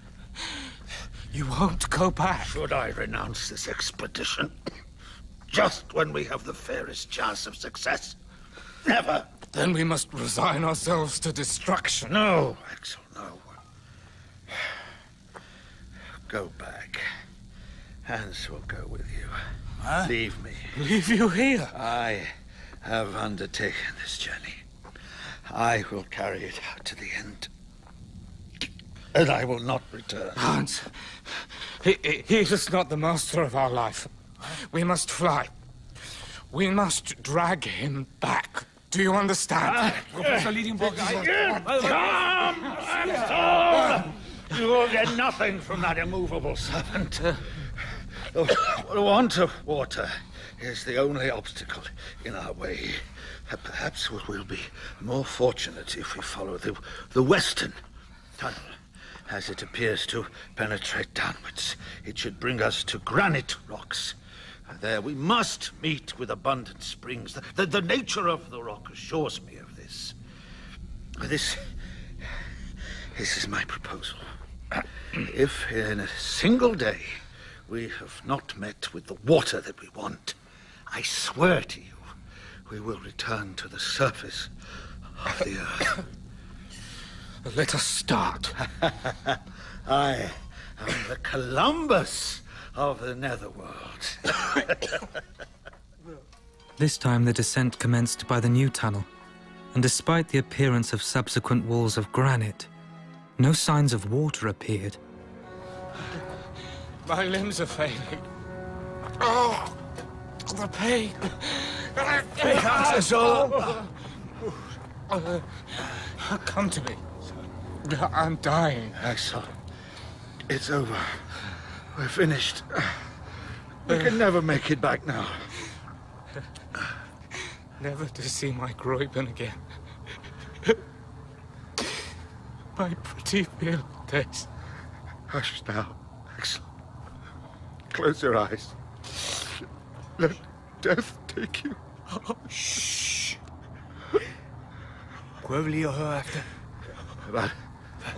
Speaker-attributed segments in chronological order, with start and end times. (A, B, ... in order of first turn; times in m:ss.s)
0:01.3-0:02.6 A
0:02.4-0:04.7 B
0:05.5-0:08.2 B
0:08.8-0:09.3 B
0:09.4-0:12.2 A
0:12.1-0:13.6 B
0:16.3-0:17.1 B
0:18.0-0:20.8 B
0:19.8-0:20.1 C
0:20.7-0:21.8 A
0:21.7-0:24.6 B
0:25.4-0:27.5 B
0:29.1-0:30.5 B
0:30.4-0:35.5 A
0:36.5-0:40.2 A
0:39.6-0:47.4 B
0:40.0-0:43.4 C
0:48.2-0:57.8 B
0:58.4-1:10.2 B
1:11.2-1:11.7 B
1:13.1-1:14.3 B
1:14.8-1:20.4 B
1:20.9-1:22.0 B
1:22.7-1:24.5 B
1:25.2-1:26.0 B
1:27.4-1:28.6 A
1:28.8-1:35.1 B
1:36.8-1:39.1 D
1:39.7-1:42.7 D
1:43.4-1:45.0 D
1:47.0-1:48.3 A
1:49.2-1:49.8 A
1:50.4-1:53.7 A
1:52.4-1:53.8 C
1:52.7-1:53.8 B
1:55.1-1:55.5 A
1:56.2-1:57.0 A
1:57.8-1:59.0 A
1:59.0-1:59.6 B
2:00.5-2:01.3 B
2:01.9-2:03.0 B
2:03.8-2:05.5 B
2:07.8-2:09.6 A
2:12.8-2:14.5 A
2:15.3-2:16.7 B
2:17.9-2:19.4 B
2:20.2-2:21.8 B
2:22.3-2:22.7 A
2:25.4-2:26.5 C
2:27.2-2:27.6 B